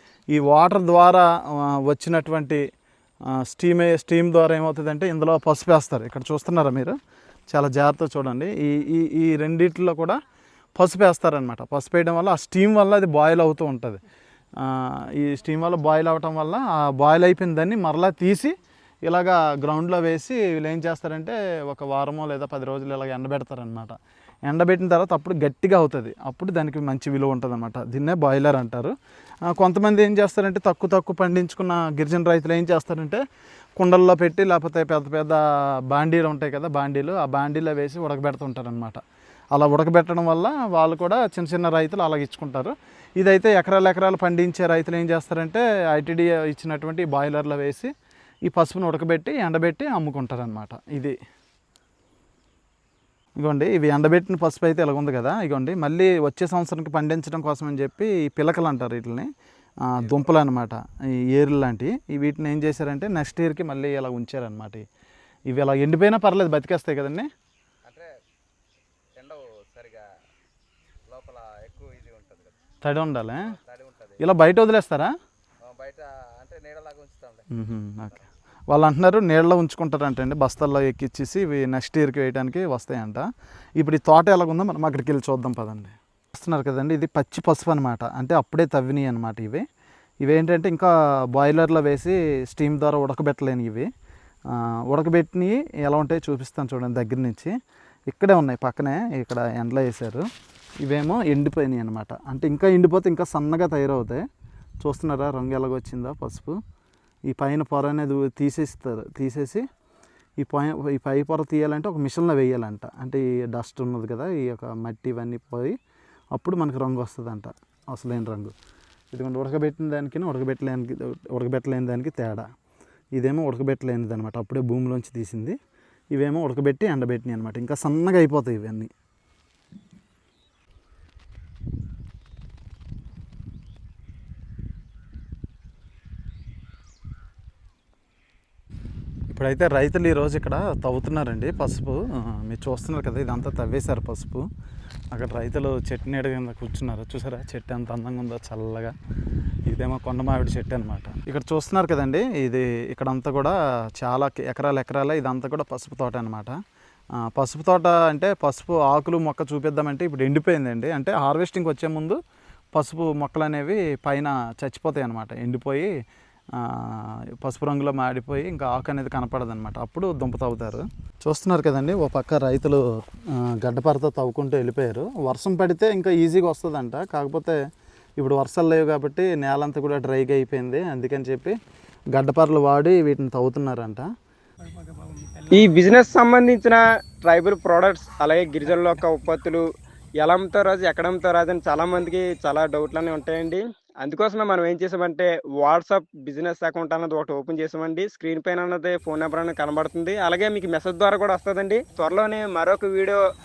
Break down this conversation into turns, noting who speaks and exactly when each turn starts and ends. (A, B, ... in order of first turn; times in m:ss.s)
0:00.3-0:02.6 A
0:03.3-0:07.0 A
0:07.5-0:10.2 A
0:10.8-0:14.0 A
0:14.6-0:29.0 A
0:29.5-0:33.2 A
0:33.8-0:39.0 A
0:39.5-0:47.9 A
0:48.5-0:51.2 A
0:53.4-0:59.3 A
0:59.9-1:04.8 A
1:00.0-1:00.4 B
1:05.5-1:07.3 A
1:07.9-1:08.1 B
1:09.2-1:10.0 B
1:11.1-1:12.6 B
1:12.8-1:13.6 A
1:13.4-1:14.2 B
1:14.2-1:15.1 A
1:15.6-1:17.5 B
1:17.5-1:18.2 A
1:18.7-1:23.3 A
1:23.8-1:29.6 A
1:30.2-1:33.9 A
1:34.5-1:37.6 A
1:38.1-1:40.3 A
1:40.8-1:44.2 A
1:44.8-1:46.6 A
1:47.3-1:49.7 A
1:50.4-1:55.8 A
1:56.3-1:58.5 A
1:59.1-2:02.5 A
2:03.1-2:05.6 A
2:06.1-2:08.9 A
2:19.3-2:24.5 A
2:25.1-2:29.0 A
2:29.6-2:36.6 A
2:37.2-2:42.2 A
2:42.7-2:45.9 A
2:46.5-2:57.6 A
2:58.2-3:01.6 A
3:02.2-3:04.1 A
3:04.6-3:09.6 C
3:10.2-3:23.2 C